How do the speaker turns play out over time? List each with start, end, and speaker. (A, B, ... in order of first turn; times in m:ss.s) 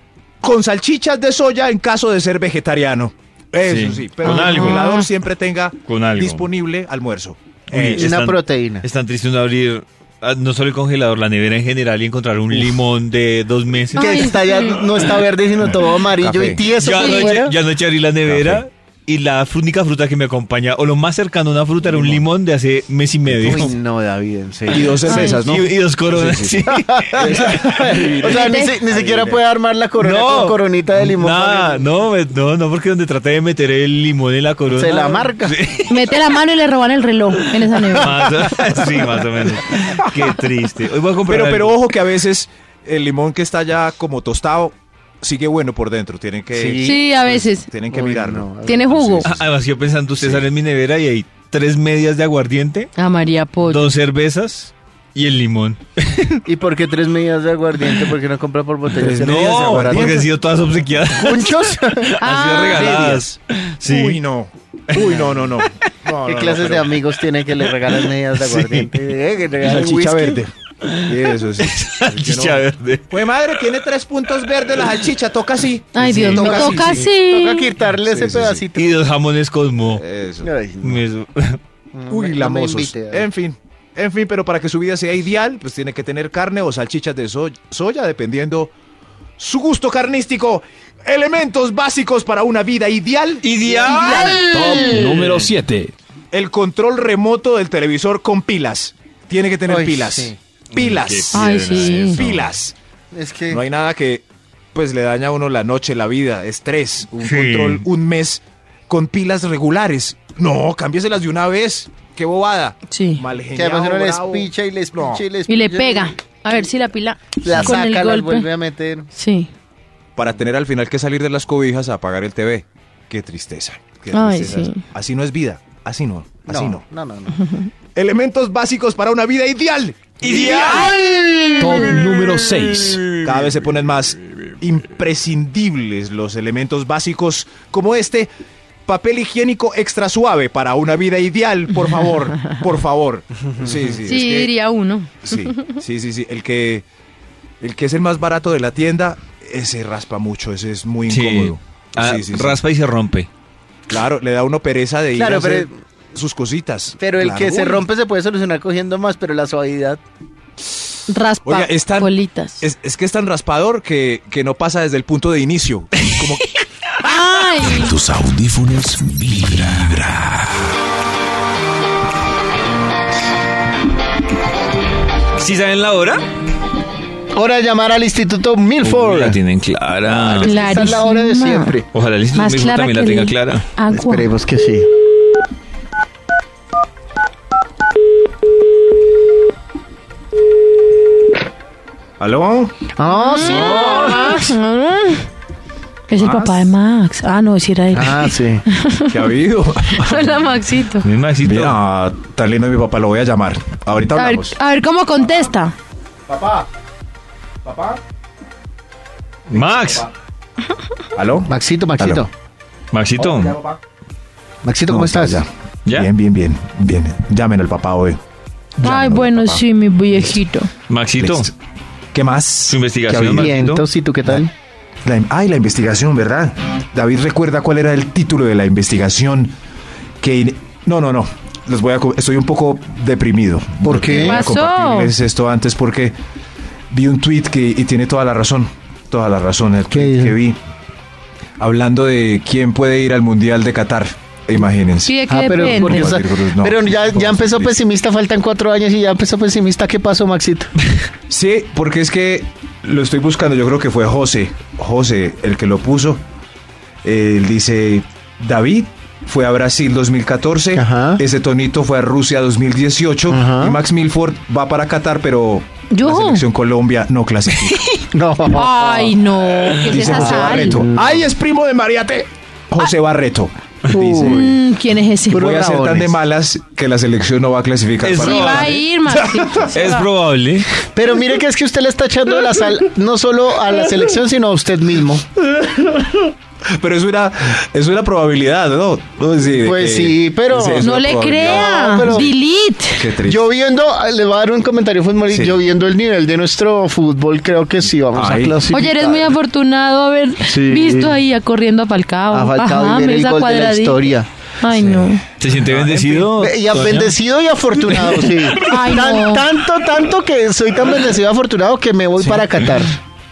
0:00.4-0:08.1 A
0:03.6-0:04.8 B
0:04.4-0:05.0 C
0:05.8-0:06.5 B
0:07.7-0:14.2 B
0:07.9-0:08.9 D
0:14.0-0:14.9 C
0:14.0-0:17.6 D
0:16.1-0:16.6 A
0:16.7-0:23.7 B
0:17.0-0:17.4 C
0:18.2-0:18.6 A
0:21.8-0:22.2 A
0:23.3-0:23.6 A
0:23.4-0:25.3 D
0:24.7-0:29.4 A
0:24.7-0:27.3 B
0:25.0-0:25.4 C
0:26.7-0:31.8 D
0:28.3-0:28.8 C
0:30.0-0:36.2 B
0:34.7-0:35.6 D
0:35.9-0:38.2 C
0:37.7-0:41.8 B
0:41.3-0:49.5 A
0:46.5-0:47.0 D
0:46.8-0:47.7 C
0:47.8-0:48.8 D
0:48.6-0:49.3 C
0:49.2-0:52.9 B
0:53.0-0:53.9 C
0:53.6-0:56.4 B
0:56.4-1:00.3 D
0:59.0-1:00.2 A
0:59.2-1:01.6 B
1:01.2-1:03.3 D
1:02.2-1:03.0 C
1:02.2-1:04.2 B
1:03.0-1:03.2 A
1:03.8-1:07.0 A
1:04.9-1:05.7 B
1:06.2-1:10.4 D
1:08.3-1:08.9 B
1:09.6-1:10.5 A
1:10.8-1:13.2 B
1:11.1-1:17.1 A
1:15.9-1:17.8 C
1:16.2-1:19.1 D
1:17.9-1:18.6 A
1:18.8-1:20.0 B
1:20.0-1:20.5 A
1:20.4-1:21.0 D
1:20.8-1:21.6 B
1:21.9-1:23.3 D
1:22.1-1:28.7 A
1:29.4-1:34.2 A
1:33.4-1:35.5 B
1:33.9-1:35.0 C
1:34.1-1:35.9 E
1:36.3-1:42.8 A
1:39.7-1:40.4 D
1:40.7-1:42.5 B
1:41.3-1:42.2 C
1:43.1-1:43.6 D
1:43.5-1:55.2 A
1:47.2-1:47.8 B
1:52.9-1:53.2 C
1:53.5-1:56.7 D
1:55.5-1:58.5 C
1:57.4-1:59.1 D
1:59.1-1:59.5 C
2:00.2-2:06.8 A
2:04.1-2:04.8 C
2:06.5-2:07.5 D
2:07.4-2:07.7 C
2:08.0-2:10.7 A
2:10.2-2:13.5 B
2:10.6-2:11.0 C
2:11.6-2:11.9 C
2:11.6-2:13.0 E
2:13.2-2:18.3 A
2:18.9-2:24.5 A
2:24.0-2:25.8 C
2:25.2-2:26.9 A
2:27.6-2:32.6 A
2:31.1-2:33.3 B
2:33.9-2:37.9 A
2:35.1-2:35.7 D
2:37.0-2:40.0 D
2:41.1-2:42.6 C
2:41.4-2:46.6 A
2:47.0-2:48.0 C
2:47.8-2:50.2 F
2:49.6-2:50.1 B
2:55.4-2:56.2 B
2:57.3-2:59.4 D
2:58.8-3:01.0 B
3:00.2-3:01.9 D
3:00.4-3:01.8 C
3:01.9-3:03.7 B
3:02.4-3:04.3 C
3:03.9-3:04.9 D
3:12.2-3:12.8 A
3:13.0-3:14.5 D
3:13.0-3:15.2 C
3:16.1-3:19.2 C
3:16.1-3:16.6 A
3:17.9-3:18.6 D
3:19.1-3:20.6 A
3:19.9-3:21.1 C
3:21.0-3:21.8 B
3:21.4-3:24.6 A
3:24.1-3:25.7 C
3:26.3-3:26.7 A
3:27.6-3:28.0 A
3:29.5-3:30.1 B
3:29.5-3:30.1 A
3:31.2-3:32.2 A
3:31.5-3:32.3 D
3:32.9-3:33.6 B
3:33.2-3:33.8 A
3:34.6-3:35.4 D
3:34.9-3:38.2 A
3:38.8-3:40.3 A
3:38.8-3:40.7 C
3:40.9-3:41.5 B
3:41.2-3:41.5 A
3:42.1-3:43.6 A
3:42.7-3:43.8 B
3:43.1-3:44.5 D
3:45.0-3:49.5 A
3:50.2-3:56.2 A
3:53.8-3:54.4 D
3:54.0-3:55.1 C
3:56.9-4:00.6 A
3:59.9-4:00.3 D
4:01.6-4:07.8 A
4:05.0-4:06.2 C
4:05.3-4:10.7 D
4:11.3-4:16.2 A
4:17.0-4:27.8 A
4:20.7-4:21.2 D
4:23.3-4:23.8 D
4:25.9-4:26.4 C
4:28.1-4:29.2 D
4:28.5-4:30.8 C
4:29.6-4:30.0 B
4:29.9-4:34.6 A
4:30.0-4:31.1 D
4:33.9-4:34.5 D
4:34.2-4:36.0 C
4:35.3-4:36.2 D
4:35.4-4:39.5 A
4:38.0-4:38.8 B
4:38.2-4:40.0 C
4:39.7-4:40.7 B
4:41.0-4:45.2 D
4:45.5-4:52.4 A
4:49.6-4:50.9 D
4:50.8-4:53.0 C
4:51.4-4:52.3 D
4:53.0-4:53.5 A
4:53.2-4:59.3 D
4:55.3-4:55.6 A
4:58.1-4:58.6 A
4:58.6-5:04.1 C
5:00.5-5:01.2 D
5:02.3-5:04.3 D
5:04.6-5:05.2 C
5:04.7-5:06.4 A
5:05.4-5:07.1 B
5:06.4-5:13.0 D
5:08.1-5:08.6 B
5:08.6-5:09.5 C
5:12.2-5:12.5 A